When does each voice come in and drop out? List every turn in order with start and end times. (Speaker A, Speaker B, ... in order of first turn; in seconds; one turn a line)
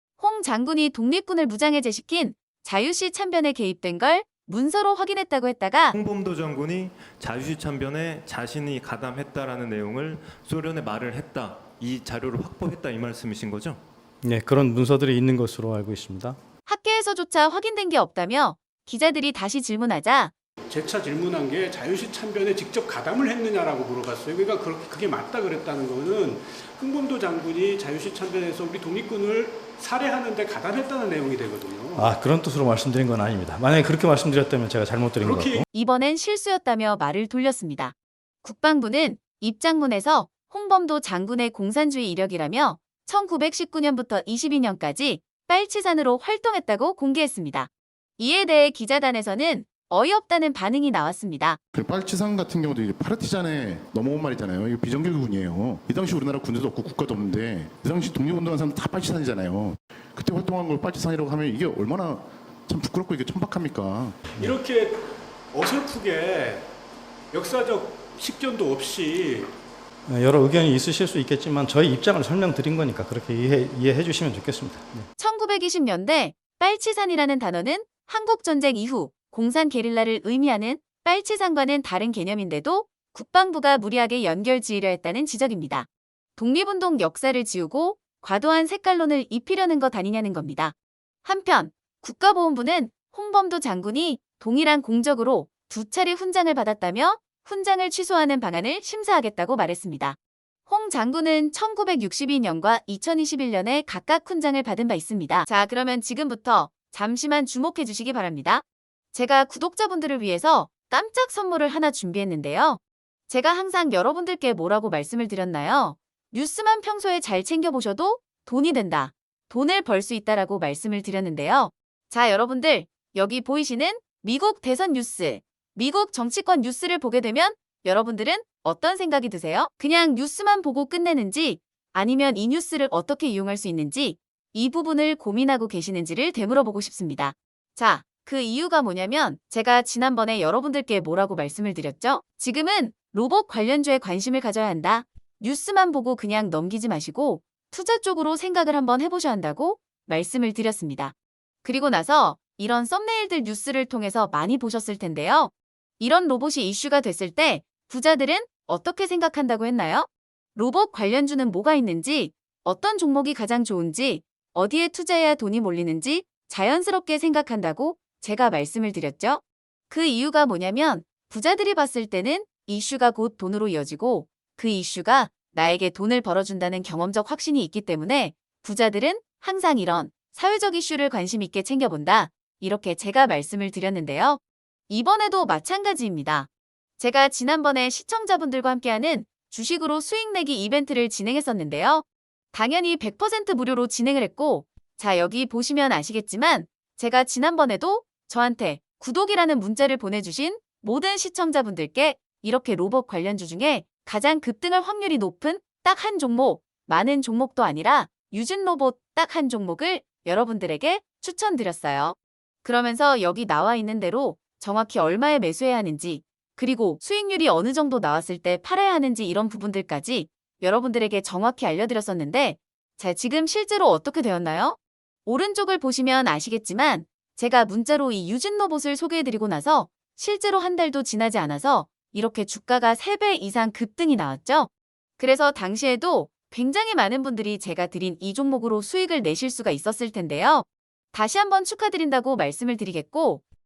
Speaker A: 0.2-6.0
Speaker B: 5.9-13.8
Speaker C: 14.2-16.4
Speaker A: 16.6-20.3
Speaker D: 20.7-32.1
Speaker C: 31.9-35.6
Speaker D: 35.2-35.6
Speaker A: 35.7-51.6
Speaker E: 51.7-64.2
Speaker D: 64.4-66.7
Speaker D: 67.3-69.5
Speaker C: 70.1-75.1
Speaker A: 75.2-243.4